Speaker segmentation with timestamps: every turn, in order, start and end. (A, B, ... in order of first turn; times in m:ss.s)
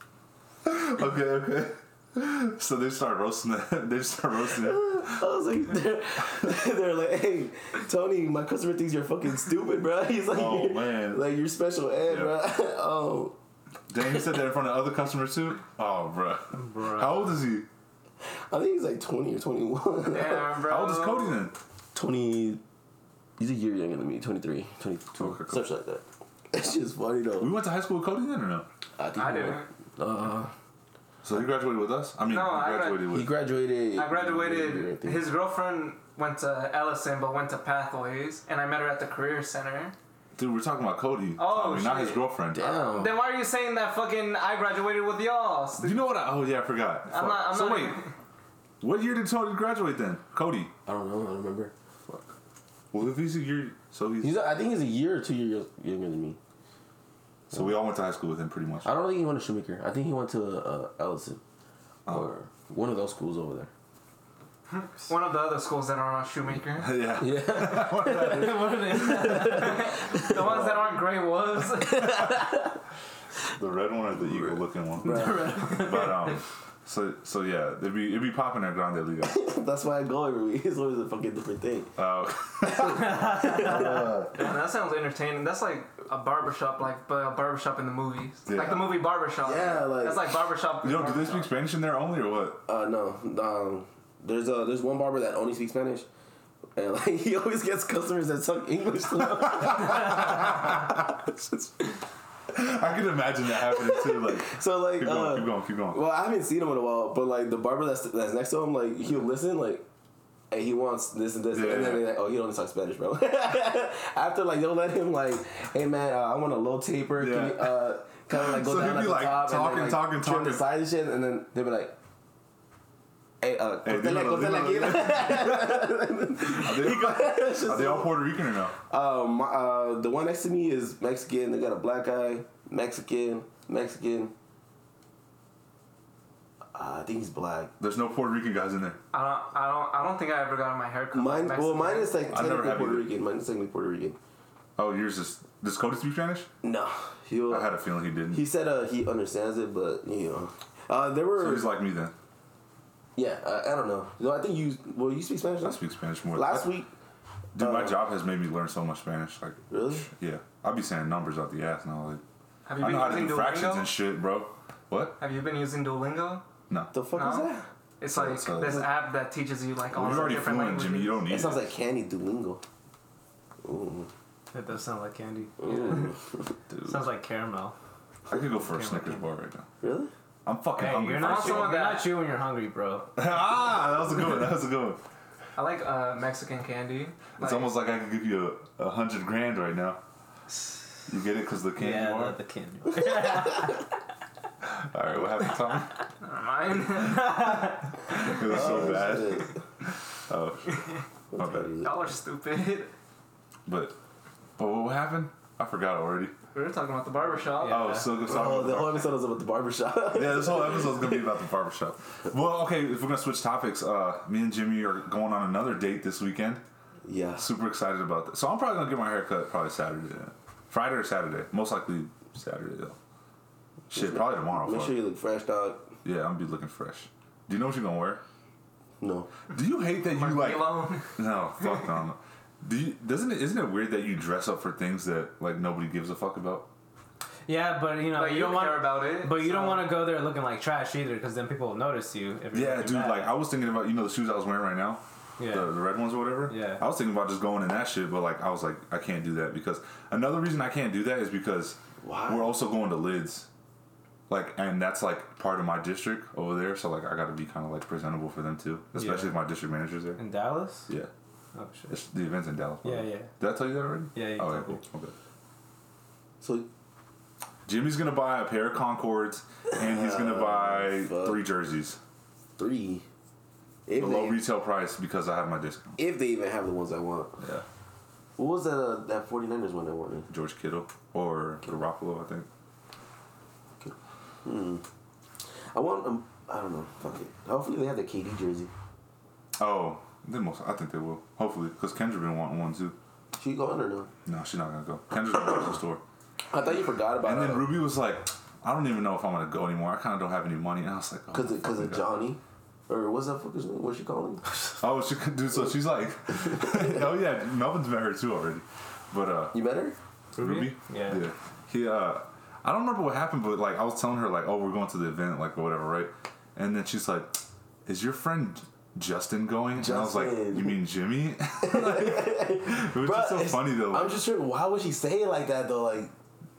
0:00.6-0:05.2 A
0:04.6-0:13.4 B
0:10.3-0:11.2 A
0:12.1-0:12.4 A
0:13.9-0:17.7 A
0:16.6-0:17.4 C
0:18.2-0:20.6 B
0:20.1-0:21.4 D
0:20.6-0:21.6 A
0:21.9-0:22.6 B
0:23.4-0:27.5 B
0:25.2-0:25.7 A
0:27.4-0:28.7 A
0:29.0-0:30.5 B
0:29.2-0:29.7 D
0:31.2-0:33.3 A
0:32.3-0:33.1 D
0:33.1-0:35.3 B
0:34.0-0:40.0 D
0:40.4-0:42.7 A
0:41.4-0:46.2 D
0:42.5-0:43.2 B
0:45.8-0:48.0 A
0:47.1-0:48.1 D
0:48.8-0:50.7 A
0:50.9-0:51.7 B
0:52.9-0:54.4 A
0:54.2-0:56.4 B
0:57.5-0:58.9 A
0:58.8-1:01.4 B
1:02.1-1:03.7 B
1:04.7-1:07.0 D
1:06.8-1:08.7 A
1:07.2-1:11.0 B
1:08.0-1:09.8 C
1:09.3-1:12.2 D
1:11.8-1:12.8 B
1:12.0-1:12.4 A
1:13.5-1:19.4 A
1:15.0-1:16.1 B
1:15.0-1:16.3 C
1:19.2-1:22.0 B
1:22.0-1:24.4 A
1:22.6-1:24.3 B
1:23.4-1:23.7 C
1:24.3-1:31.5 D
1:28.5-1:29.0 A
1:29.4-1:30.4 B
1:30.8-1:32.6 A
1:32.7-1:36.1 B
1:36.8-1:41.9 B
1:39.5-1:40.3 A
1:42.5-1:46.0 A
1:43.6-1:49.8 B
1:50.5-2:02.0 B
1:51.5-1:52.1 A
1:57.2-1:57.8 A
1:58.3-2:00.6 A
2:03.4-2:14.3 B
2:03.8-2:05.9 A
2:06.4-2:08.8 A
2:16.7-2:17.7 B
2:17.8-2:19.0 A
2:19.1-2:22.2 D
2:21.1-2:24.2 B
2:22.3-2:23.1 A
2:24.8-2:26.5 A
2:26.6-2:27.8 B
2:27.5-2:28.5 A
2:28.3-2:31.8 B
2:31.4-2:32.1 A
2:33.2-2:35.8 B
2:35.6-2:36.7 A
2:36.3-2:36.9 B
2:37.6-2:42.2 A
2:37.6-2:38.0 B
2:39.7-2:40.1 B
2:42.7-2:43.9 D
2:42.8-2:45.2 A
2:45.2-2:46.5 D
2:46.9-2:47.7 B
2:47.1-2:51.2 D
2:48.1-2:48.9 A
2:49.9-2:51.7 A
2:50.0-2:50.3 B
2:51.3-2:52.6 B
2:53.6-2:54.1 B
2:54.5-2:56.1 C
2:55.6-2:56.3 B
2:56.7-2:57.1 A
2:56.9-2:57.8 C
2:58.3-2:59.7 A
2:58.5-2:59.2 C
2:59.8-3:00.1 B
3:00.5-3:01.8 A
3:00.8-3:03.1 C
3:01.2-3:02.2 D
3:03.2-3:05.0 A
3:05.6-3:07.7 D
3:07.4-3:10.0 A
3:11.1-3:12.4 A
3:11.8-3:13.9 C
3:14.6-3:16.0 A
3:16.2-3:17.8 D
3:17.1-3:19.5 A
3:18.4-3:19.6 B
3:20.3-3:21.7 A
3:21.3-3:22.0 B
3:21.8-3:22.9 D
3:23.7-3:24.0 A
3:24.6-3:26.3 A
3:26.5-3:28.0 D
3:27.5-3:28.1 C
3:27.7-3:29.1 A
3:28.2-3:31.3 B
3:30.1-3:36.6 A
3:37.0-3:37.5 B
3:37.4-3:43.0 A
3:43.9-3:45.0 A
3:43.9-3:45.9 B
3:46.0-3:48.2 A
3:49.0-3:49.3 B
3:49.5-3:56.7 A
3:50.1-3:51.1 D
3:57.5-4:03.4 C
3:58.1-4:00.0 D
4:02.5-4:13.5 A
4:05.4-4:05.8 C
4:06.5-4:06.8 C
4:12.0-4:12.6 B
4:14.3-4:20.2 A
4:19.0-4:19.4 C
4:20.2-4:20.9 C
4:21.6-4:22.0 C
4:21.9-4:25.1 A
4:22.8-4:23.3 C
4:24.1-4:24.8 C
4:26.4-4:26.7 B
4:27.7-4:32.0 A
4:29.8-4:31.4 B
4:32.6-4:33.0 B
4:33.9-4:34.4 B
4:34.0-4:36.0 A
4:36.0-4:37.4 B
4:38.4-4:40.3 B
4:40.3-4:42.5 A
4:43.8-4:44.8 B
4:45.7-4:48.7 B
4:49.6-4:53.0 A
4:53.3-4:54.1 B
4:54.3-4:56.0 A
4:56.5-4:57.8 B
4:57.2-5:02.1 A
5:01.3-5:04.7 B
5:04.8-5:09.6 A
5:06.6-5:06.9 B
5:09.5-5:10.0 B
5:10.4-5:11.2 C
5:10.4-5:24.2 A
5:19.8-5:20.8 B
5:21.6-5:26.1 B